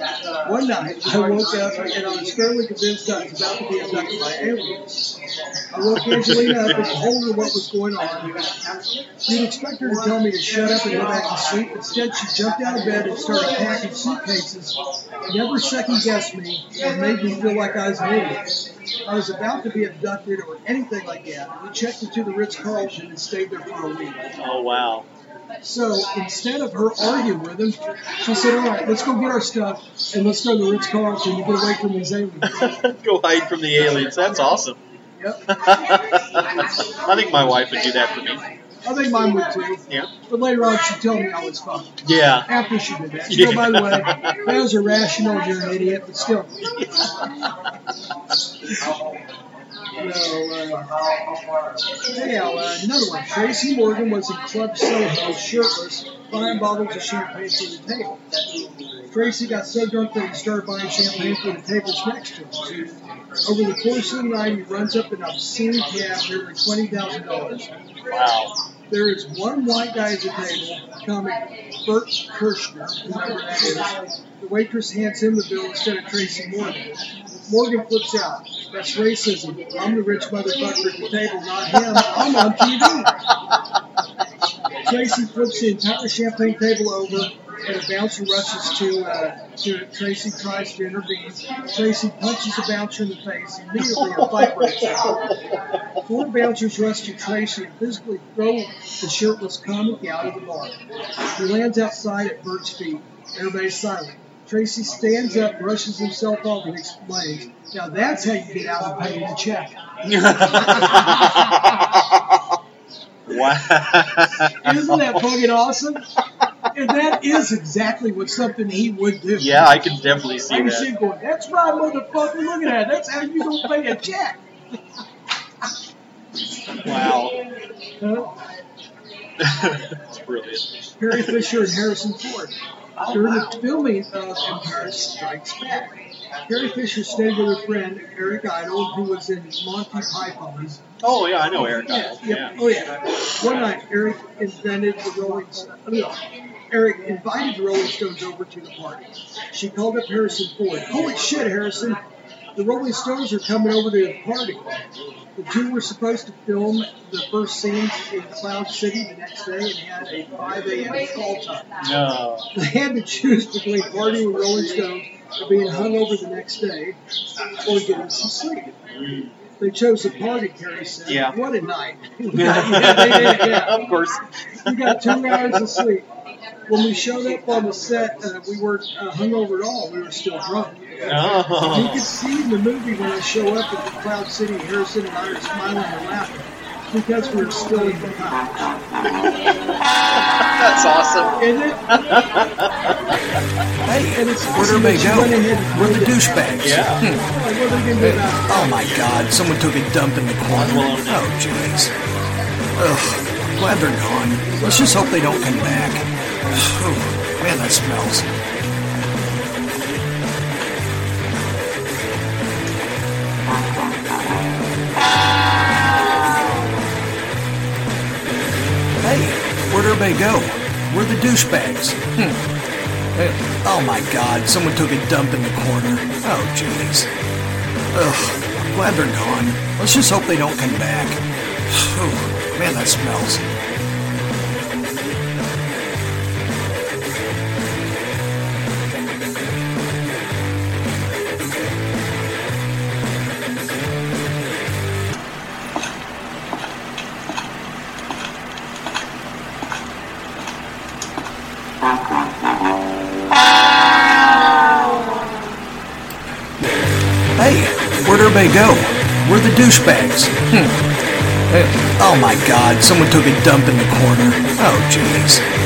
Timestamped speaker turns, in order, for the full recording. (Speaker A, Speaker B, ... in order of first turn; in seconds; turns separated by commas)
Speaker A: 0.4-4.9, Speaker A: 5.7-8.4, Speaker B: 6.0-6.8, Speaker A: 9.2-18.5, Speaker A: 19.1-24.3, Speaker B: 24.4-25.1, Speaker A: 25.6-32.8, Speaker B: 32.4-34.8, Speaker A: 35.2-35.4, Speaker B: 35.5-38.5, Speaker A: 38.8-46.5, Speaker B: 42.0-42.5, Speaker B: 43.3-44.5, Speaker B: 46.6-47.7, Speaker A: 50.0-51.0, Speaker A: 52.1-58.2, Speaker A: 59.1-67.7, Speaker B: 68.1-68.5, Speaker A: 68.9-76.9, Speaker A: 77.5-83.1, Speaker B: 81.9-82.8, Speaker A: 84.8-95.2, Speaker B: 93.8-94.9, Speaker A: 96.0-100.8, Speaker A: 101.3-109.8, Speaker B: 110.0-112.4, Speaker A: 110.3-111.7, Speaker B: 113.3-115.4, Speaker A: 114.6-116.1, Speaker A: 116.7-119.7, Speaker B: 119.3-120.9, Speaker A: 120.5-124.4, Speaker B: 126.8-127.4, Speaker A: 128.0-128.3, Speaker B: 129.4-131.5, Speaker A: 131.0-132.6, Speaker B: 132.9-133.6, Speaker A: 133.1-140.8, Speaker B: 141.0-142.6, Speaker A: 141.6-146.2, Speaker A: 146.7-152.0, Speaker A: 152.5-154.7, Speaker A: 155.3-161.7, Speaker B: 161.8-162.5, Speaker A: 162.5-167.0, Speaker A: 167.6-168.8, Speaker B: 168.9-169.3, Speaker A: 169.6-173.8, Speaker B: 171.1-171.4, Speaker B: 172.3-175.8, Speaker A: 174.7-176.1, Speaker A: 176.7-188.6, Speaker B: 181.0-182.1, Speaker B: 189.1-189.5, Speaker B: 190.4-193.4, Speaker A: 191.4-191.8, Speaker C: 193.8-197.2, Speaker A: 194.2-196.3, Speaker B: 196.6-197.0, Speaker A: 197.0-198.8, Speaker C: 198.0-201.9, Speaker B: 200.5-201.3, Speaker C: 202.8-208.3, Speaker C: 219.0-222.4, Speaker C: 223.1-227.1, Speaker C: 227.9-233.4, Speaker C: 257.4-260.7, Speaker C: 261.5-265.4